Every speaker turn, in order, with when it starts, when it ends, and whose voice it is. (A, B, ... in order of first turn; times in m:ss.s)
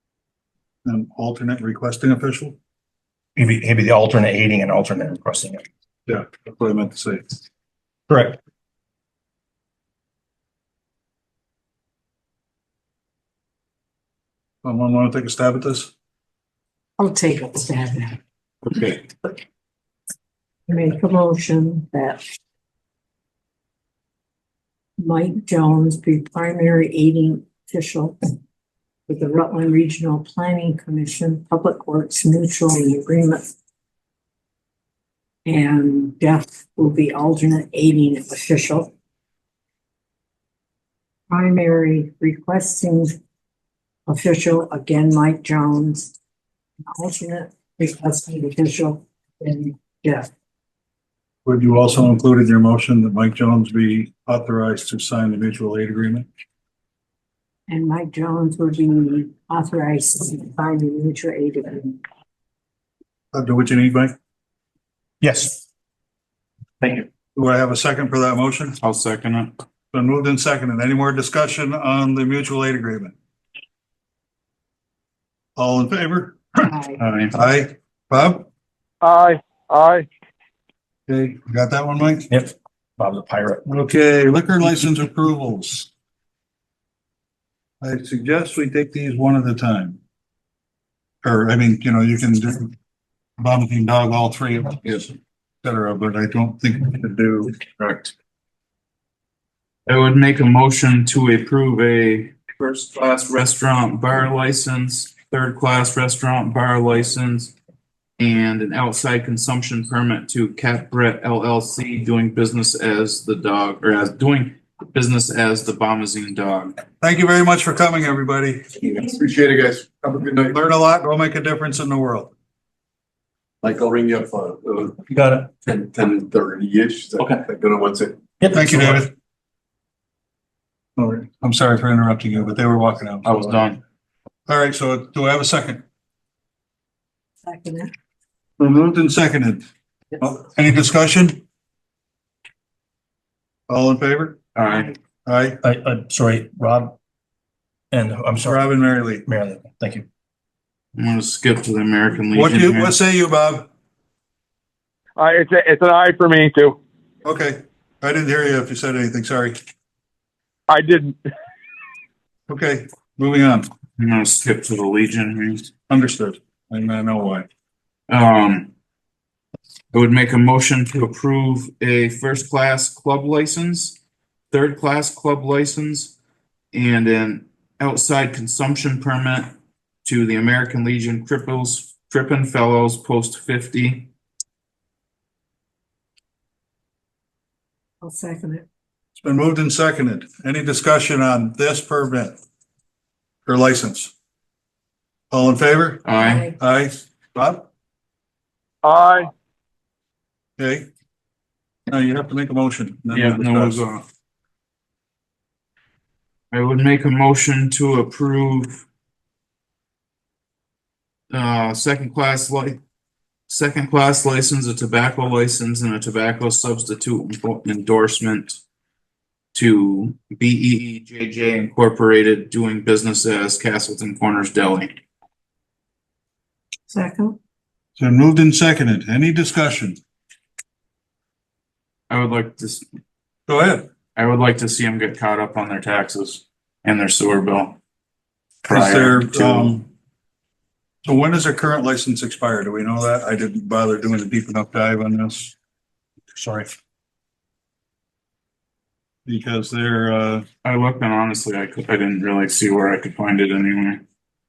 0:00.8-0:02.6 A
0:03.4-0:05.6 B
0:06.1-0:07.3 A
0:08.1-0:08.4 B
0:14.6-0:15.9 A
0:17.0-0:18.2 C
0:18.6-0:19.0 D
0:20.7-0:22.2 C
0:25.0-0:28.2 C
0:29.1-0:33.5 C
0:35.4-0:38.9 C
0:41.3-0:43.2 C
0:44.1-0:46.1 C
0:46.9-0:50.3 C
0:51.4-0:56.3 A
0:57.7-1:02.0 C
1:03.3-1:04.1 A
1:05.2-1:05.6 B
1:06.8-1:07.1 B
1:07.3-1:08.8 A
1:08.8-1:09.5 D
1:09.9-1:13.1 A
1:15.6-1:18.5 A
1:16.6-1:17.0 C
1:19.0-1:20.1 E
1:21.1-1:22.3 A
1:22.3-1:23.7 B
1:23.6-1:25.9 A
1:27.8-1:30.0 A
1:31.2-1:32.7 A
1:33.4-1:37.6 A
1:37.8-1:38.1 F
1:39.9-1:47.5 D
1:48.2-1:56.8 D
1:57.0-1:58.8 A
1:58.8-2:00.6 F
2:00.5-2:02.3 A
2:03.6-2:05.0 F
2:05.1-2:05.5 B
2:05.6-2:08.2 F
2:08.4-2:09.1 B
2:08.5-2:09.1 A
2:11.0-2:13.3 A
2:13.2-2:13.8 D
2:14.5-2:15.8 A
2:17.4-2:17.9 C
2:18.6-2:19.6 A
2:20.2-2:21.4 A
2:23.7-2:24.4 A
2:24.5-2:24.9 D
2:25.2-2:25.6 A
2:25.6-2:27.0 B
2:27.9-2:30.0 B
2:28.4-2:29.2 A
2:31.0-2:33.0 D
2:32.3-2:33.7 A
2:35.2-2:36.8 E
2:37.2-2:39.6 A
2:40.7-2:41.2 E
2:42.5-2:43.7 A
2:44.0-2:45.7 D
2:45.9-2:47.5 A
2:48.1-2:48.7 D
2:49.9-2:54.0 D
2:54.5-2:56.2 D
2:56.7-2:59.5 D
3:00.0-3:04.1 D
3:08.0-3:08.6 C
3:09.2-3:12.4 A
3:13.4-3:14.1 A
3:15.3-3:17.7 A
3:16.0-3:16.5 D
3:16.2-3:16.5 C
3:18.8-3:19.3 E
3:20.6-3:20.8 A
3:21.9-3:23.8 A
3:23.1-3:24.0 D
3:26.5-3:28.8 D
3:31.3-3:32.8 D
3:33.5-3:38.6 D
3:39.5-3:45.0 D
3:46.9-3:47.4 C
3:48.0-3:50.0 A
3:52.1-3:52.8 D
3:53.5-3:53.9 A
3:54.1-3:57.8 D
3:58.6-3:59.8 A
3:58.7-3:59.7 D
4:01.0-4:05.5 A
4:06.3-4:06.7 B
4:09.2-4:10.4 A
4:10.6-4:14.0 D